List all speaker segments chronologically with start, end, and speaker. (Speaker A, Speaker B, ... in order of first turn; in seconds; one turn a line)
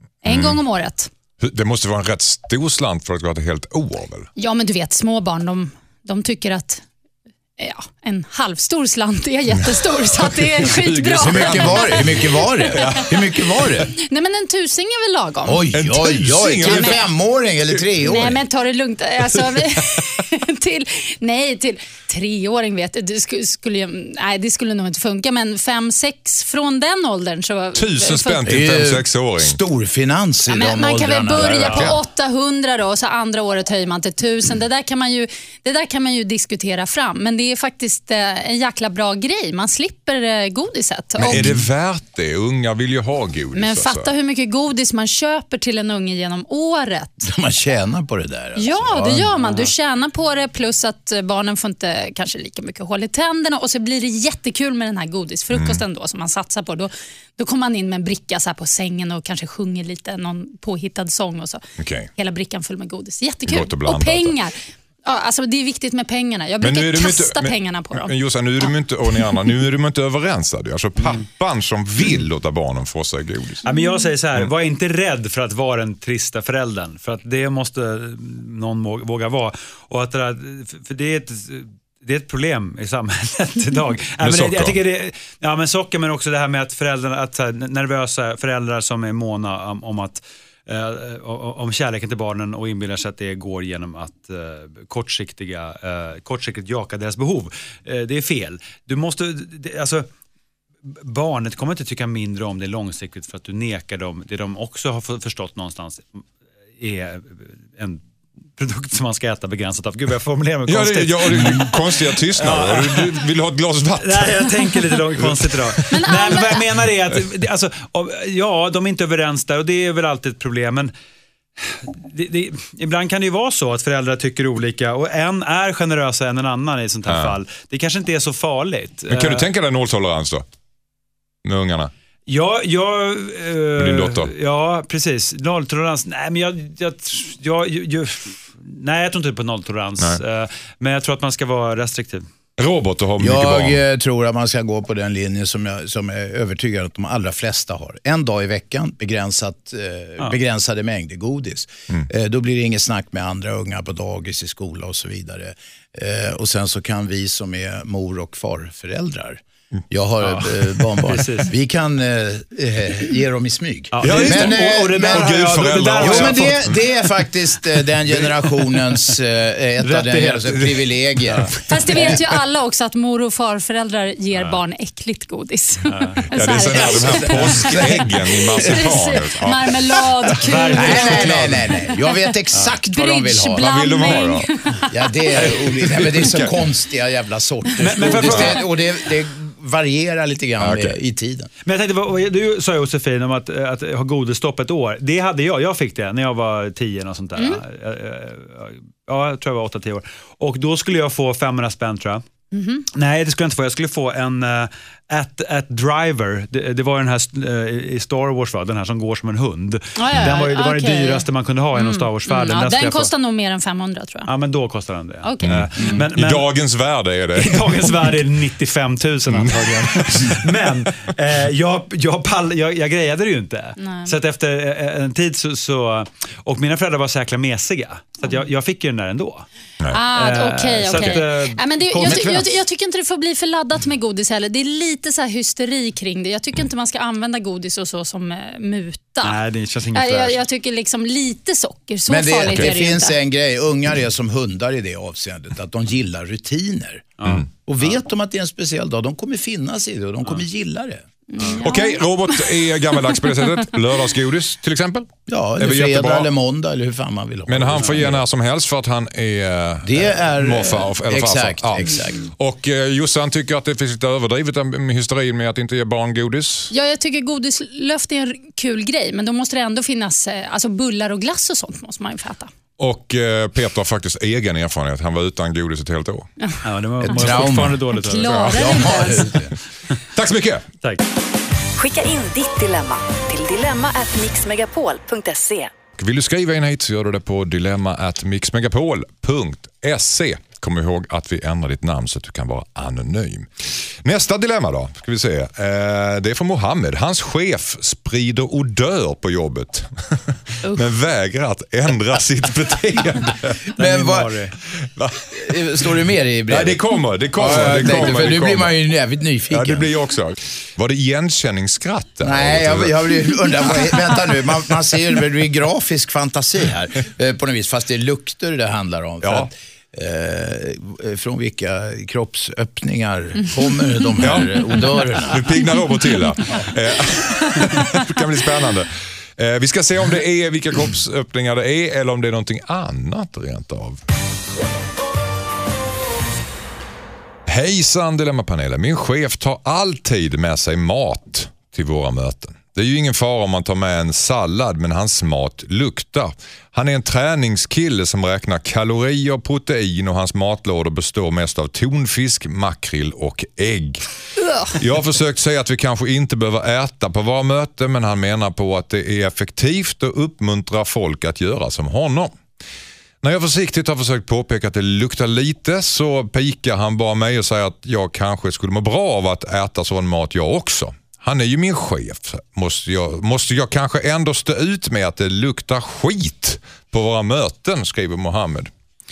Speaker A: 0.2-1.1
Speaker B: 0.2-0.6
Speaker B: 1.4-4.3
Speaker A: 4.4-6.8
Speaker A: 7.6-13.1
Speaker B: 10.2-13.1
Speaker C: 11.1-13.9
Speaker A: 13.9-15.7
Speaker C: 15.4-18.4
Speaker B: 15.7-17.1
Speaker A: 16.6-17.0
Speaker A: 18.0-28.6
Speaker B: 19.3-20.0
Speaker B: 27.7-29.6
Speaker C: 28.4-31.9
Speaker A: 30.5-41.5
Speaker B: 31.6-32.0
Speaker B: 41.2-44.1
Speaker C: 41.3-41.5
Speaker A: 43.5-47.3
Speaker C: 47.2-49.3
Speaker A: 48.5-61.6
Speaker D: 49.4-49.7
Speaker B: 55.5-55.8
Speaker B: 61.8-62.1
Speaker A: 62.1-68.1
Speaker B: 63.5-64.3
Speaker B: 66.6-73.6
Speaker A: 73.7-74.1
Speaker D: 73.7-100.1
Speaker B: 84.2-84.8
Speaker D: 100.8-106.2
Speaker D: 106.8-108.0
Speaker D: 108.6-113.2
Speaker B: 110.7-116.0
Speaker D: 114.0-120.9
Speaker A: 115.9-116.7
Speaker D: 121.6-129.5
Speaker B: 127.1-127.4
Speaker B: 129.1-130.4
Speaker B: 131.4-131.9
Speaker D: 132.3-142.2
Speaker B: 133.8-134.3
Speaker B: 142.6-143.8
Speaker C: 143.2-165.3
Speaker D: 160.2-161.5
Speaker D: 163.9-166.6
Speaker B: 164.0-166.7
Speaker C: 166.0-172.2
Speaker D: 168.4-169.1
Speaker D: 169.8-172.1
Speaker A: 171.7-182.2
Speaker D: 174.3-174.6
Speaker D: 175.9-176.2
Speaker B: 176.3-181.6
Speaker C: 176.7-178.1
Speaker D: 180.4-181.5
Speaker C: 180.7-183.7
Speaker A: 182.8-185.5
Speaker B: 183.5-184.5
Speaker C: 184.9-191.5
Speaker B: 185.3-186.6
Speaker D: 187.8-188.7
Speaker B: 190.6-191.0
Speaker D: 191.6-202.2
Speaker A: 202.5-202.8
Speaker D: 202.9-213.1
Speaker A: 210.0-214.3
Speaker D: 214.2-216.5
Speaker A: 215.2-216.0
Speaker B: 215.4-218.1
Speaker D: 217.3-229.5
Speaker B: 219.3-220.9
Speaker A: 223.8-224.2
Speaker A: 229.9-239.4
Speaker D: 230.1-232.3
Speaker B: 230.9-231.2
Speaker B: 231.9-232.6
Speaker D: 239.2-240.4
Speaker A: 239.9-243.2
Speaker C: 242.1-247.1
Speaker D: 247.2-248.0
Speaker C: 247.7-251.0
Speaker A: 251.3-253.7
Speaker B: 251.6-256.3
Speaker C: 255.3-258.2
Speaker B: 257.5-266.7
Speaker C: 259.8-262.3
Speaker A: 266.7-272.5
Speaker B: 272.8-276.3
Speaker A: 276.4-279.3
Speaker D: 276.6-279.3
Speaker C: 277.0-277.8
Speaker B: 278.2-278.7
Speaker C: 278.5-279.5
Speaker B: 280.1-280.6
Speaker E: 281.8-285.7
Speaker B: 286.0-293.5
Speaker B: 294.0-303.6
Speaker C: 303.8-304.3
Speaker D: 303.8-304.6
Speaker B: 304.8-305.9
Speaker C: 305.4-306.8
Speaker B: 306.5-308.8
Speaker C: 307.4-309.9
Speaker B: 309.5-313.1
Speaker C: 312.2-325.4
Speaker B: 319.2-319.5
Speaker B: 324.2-334.0
Speaker B: 337.4-354.0
Speaker A: 354.4-354.8
Speaker B: 354.7-362.4
Speaker B: 363.2-378.7